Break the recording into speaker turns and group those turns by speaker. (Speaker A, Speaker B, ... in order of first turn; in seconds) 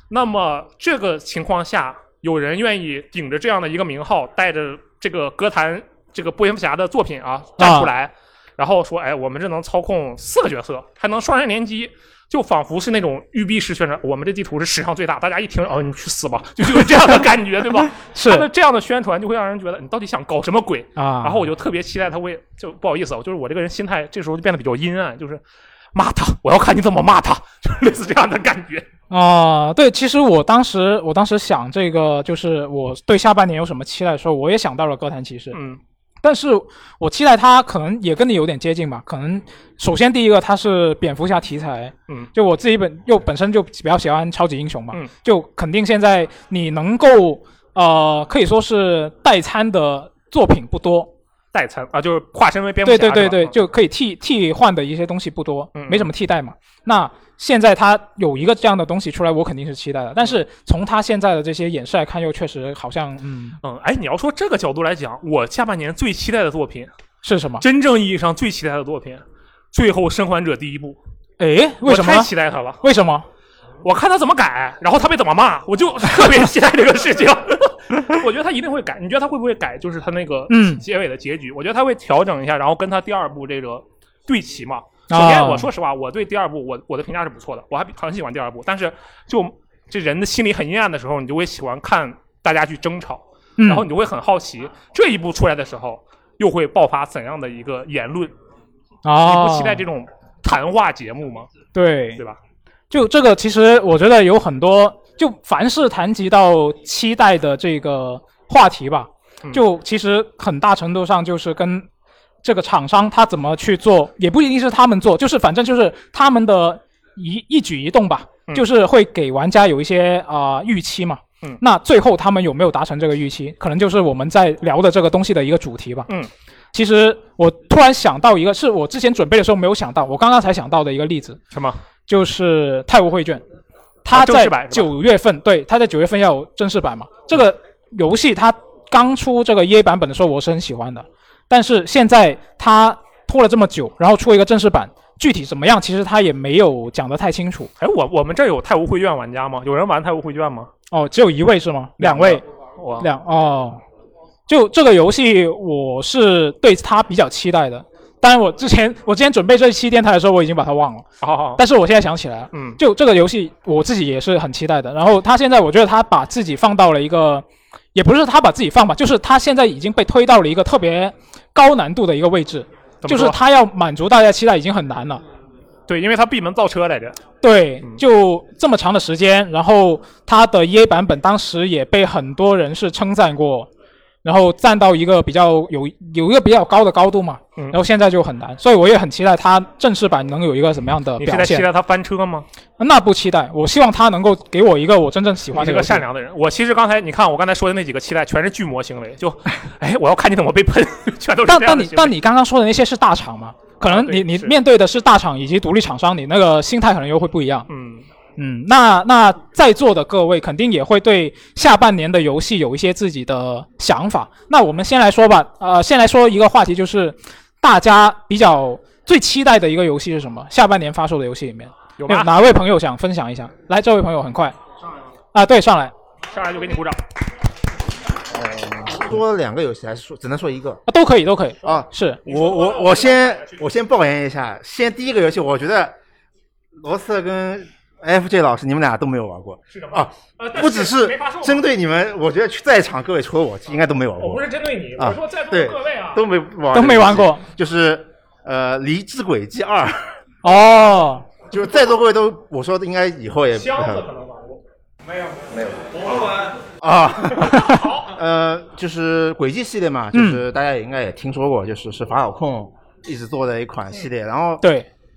Speaker A: 0.1-25.4, 25.9-28.9, 35.5-35.8, 51.5-53.6, 55.7-56.1, 63.6-66.9, 67.6-71.0, 71.8-72.8, 73.8-98.3, 99.2-101.5, 131.5-131.8, 134.1-134.9, 147.8-150.7, 152.0-153.1, 161.2-161.6, 162.5-162.8, 173.0-173.4, 175.9-177.2, 191.2-192.4, 195.6-202.1, 203.8-204.5, 207.7-208.1, 222.0-222.3, 226.3-227.0, 231.6-233.6, 239.7-241.7, 244.2-246.3, 253.6-254.6, 257.4-258.1
Speaker B: 7.6-7.9, 17.9-18.4, 20.9-21.4, 29.1-35.6, 36.2-51.1, 52.9-63.6, 67.2-67.6, 71.4-72.3, 72.8-73.3, 80.5-80.8, 85.1-85.7, 93.6-93.8, 99.0-99.8, 101.7-102.2, 102.9-111.9, 112.4-126.1, 126.7-131.4, 132.1-133.4, 134.1-147.7, 150.9-152.4, 153.0-153.8, 154.5-161.1, 161.6-175.2, 177.4-183.7, 184.2-191.7, 192.8-196.0, 201.5-207.7, 208.4-224.6, 225.3-225.9, 230.9-232.2, 246.7-247.4, 250.4-251.3, 260.1-260.4, 264.6-264.9
Speaker C: 228.3-230.8, 231.6-236.0, 236.8-244.4, 245.0-250.1, 251.5-254.1, 255.5-264.6